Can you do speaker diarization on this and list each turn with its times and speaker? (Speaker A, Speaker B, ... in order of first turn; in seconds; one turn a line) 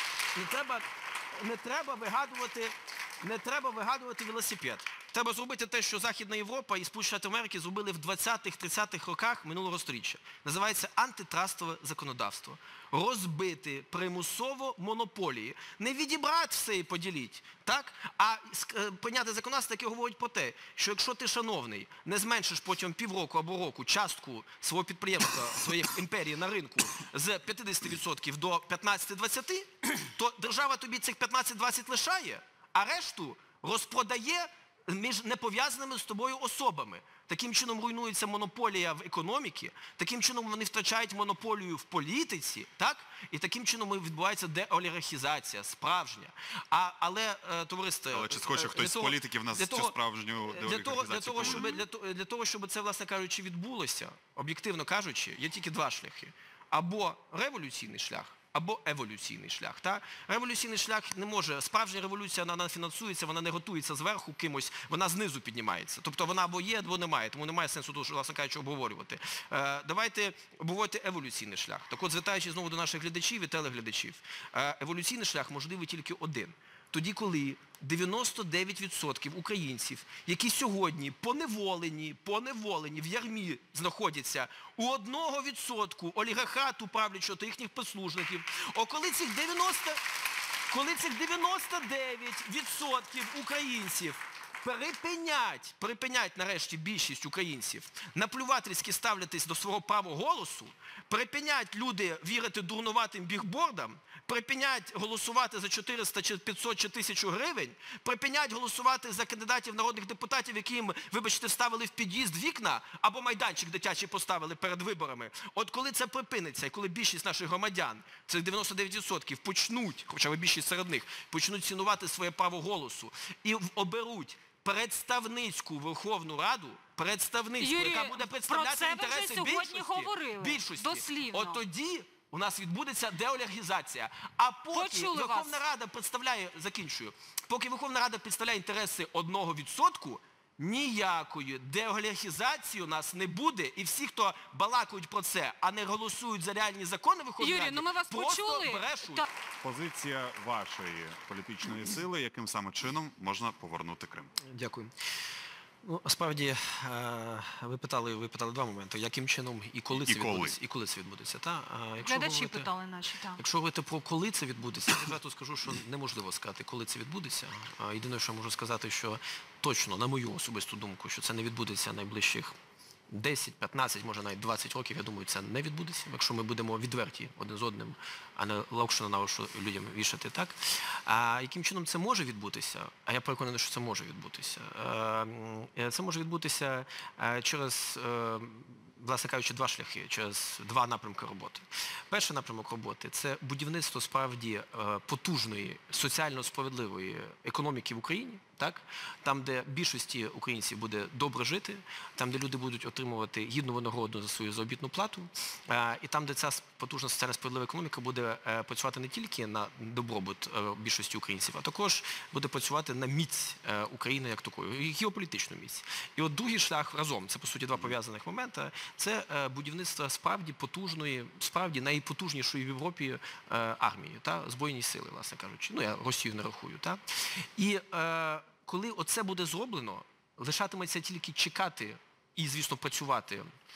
Speaker A: 0.3-50.0
Speaker B: 48.1-51.7
Speaker A: 50.5-90.0
Speaker A: 90.7-149.2
Speaker C: 127.6-131.6
Speaker C: 134.7-135.6
Speaker C: 147.4-149.2
Speaker B: 149.6-154.3
Speaker A: 154.4-154.9
Speaker A: 155.8-162.7
Speaker B: 159.9-160.6
Speaker C: 162.0-163.4
Speaker A: 163.3-172.5
Speaker A: 173.1-233.5